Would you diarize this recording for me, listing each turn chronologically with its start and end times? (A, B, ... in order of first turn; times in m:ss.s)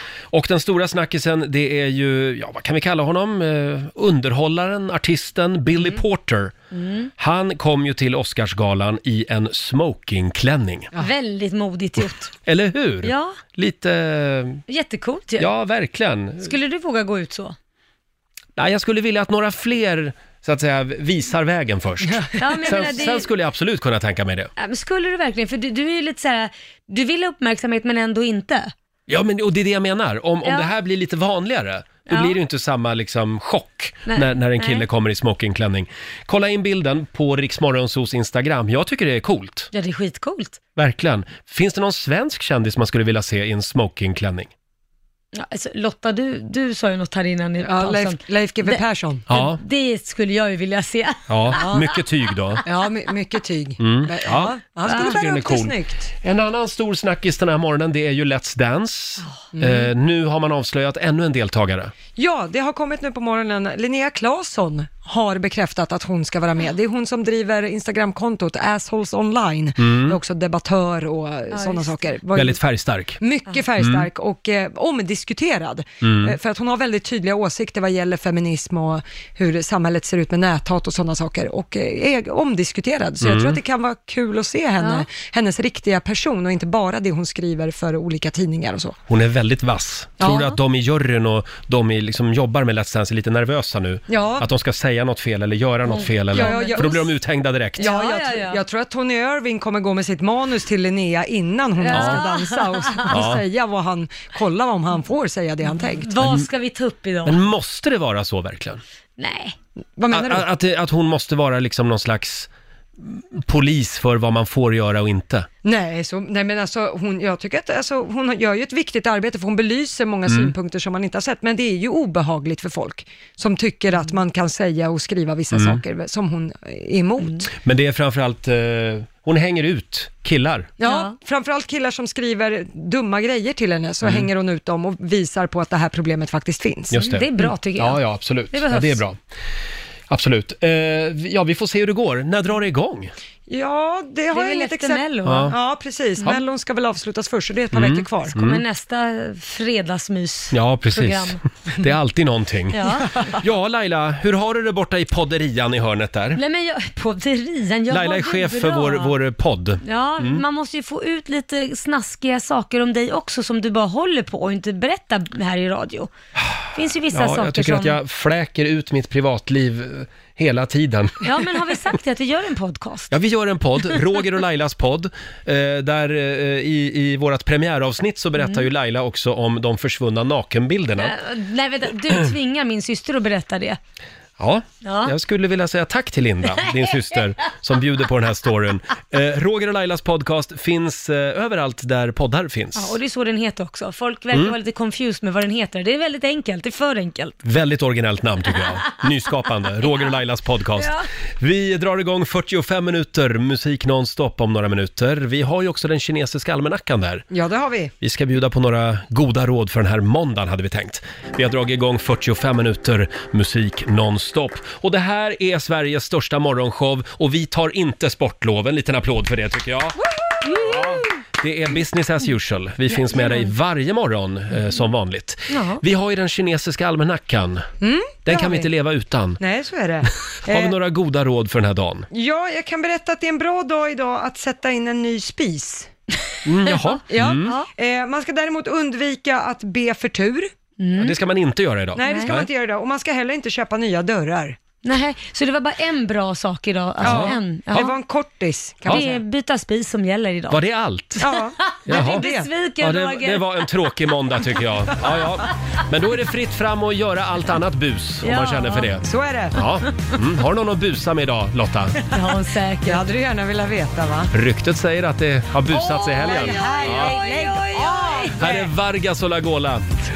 0:00.3-0:06.5 A
0:06.7-0:07.1 B
0:07.2-0:10.9 A
0:11.0-0:12.3 B
0:12.5-0:14.6 A
0:13.0-0:13.4 B
0:14.7-0:15.5 B
0:15.4-0:16.5 A
0:16.4-0:17.6 B
0:18.6-0:24.5 A
0:22.4-0:23.3 B
0:24.6-0:28.7 B
0:29.1-0:39.7 A
0:30.4-0:30.7 B
0:32.1-0:32.4 B
0:34.1-0:34.9 B
0:39.7-0:40.6 B
0:40.8-0:44.5 A
0:45.3-0:51.9 B
0:47.6-0:49.2 C
0:49.3-0:49.6 A
0:51.3-0:52.6 A
0:51.6-0:51.8 C
0:52.6-0:56.1 C
0:53.8-1:01.9 A
0:59.6-0:59.9 C
1:02.2-1:12.6 C
1:09.8-1:10.2 A
1:11.5-1:11.9 B
1:12.3-1:13.2 A
1:13.2-1:29.0 C
1:13.8-1:14.1 A
1:16.0-1:16.4 A
1:23.2-1:23.6 A
1:24.8-1:25.1 B
1:29.1-1:37.9 A
1:30.2-1:30.5 C
1:30.2-1:30.5 B
1:34.1-1:34.5 C
1:35.9-1:37.0 B
1:36.3-1:37.1 C
1:37.8-1:38.6 B
1:37.8-1:46.2 C
1:41.9-1:43.1 B
1:41.9-1:42.2 A
1:43.1-1:43.4 A
1:45.8-1:47.4 B
1:47.2-1:48.8 A
1:49.2-1:49.6 B
1:50.0-1:50.5 C
1:50.1-1:52.5 A
1:53.0-1:55.5 A
1:55.6-2:07.5 C
2:00.3-2:00.5 A
2:05.5-2:05.8 A
2:07.6-2:10.7 A
2:10.8-2:17.0 C
2:10.8-2:11.2 B
2:16.9-2:19.2 A
2:16.9-2:19.0 B
2:20.1-2:23.1 A
2:23.5-2:28.3 C
2:24.3-2:25.5 B
2:25.2-2:25.5 A
2:27.7-2:28.6 A
2:28.3-2:31.4 B
2:30.5-2:36.4 A
2:32.7-2:33.4 B
2:36.3-2:39.2 B
2:37.9-2:40.4 A
2:39.8-2:46.1 B
2:46.7-2:48.0 B
2:47.1-2:51.4 A
2:51.2-2:53.1 B
2:53.1-3:01.2 A
2:58.4-2:58.7 B
3:01.0-3:03.8 B
3:04.4-3:13.0 A
3:04.8-3:05.1 B
3:12.8-3:17.4 B
3:17.4-3:27.2 A
3:20.8-3:21.1 B
3:27.3-3:27.9 C
3:28.0-3:47.7 A
3:43.0-3:43.5 B
3:45.5-3:45.8 B
3:47.8-3:48.7 C
3:48.2-3:49.4 A
3:49.4-3:50.8 C
3:50.4-3:52.1 A
3:52.1-3:55.9 C
3:56.4-3:57.6 A
3:57.1-4:00.5 C
4:00.8-4:01.2 B
4:01.0-4:02.5 A
4:02.0-4:04.6 C
4:02.0-4:02.4 B
4:04.8-4:08.0 B
4:07.0-4:07.4 A
4:07.0-4:09.2 C
4:08.9-4:10.6 B
4:10.5-4:11.3 A
4:11.2-4:12.5 C
4:11.6-4:13.7 B
4:11.9-4:12.3 A
4:12.8-4:22.1 A
4:18.2-4:18.9 B
4:19.0-4:19.6 C
4:22.1-4:23.0 B
4:22.8-4:24.3 C
4:24.3-4:27.2 A
4:25.7-4:28.4 B
4:26.2-4:28.7 C
4:28.4-4:29.9 A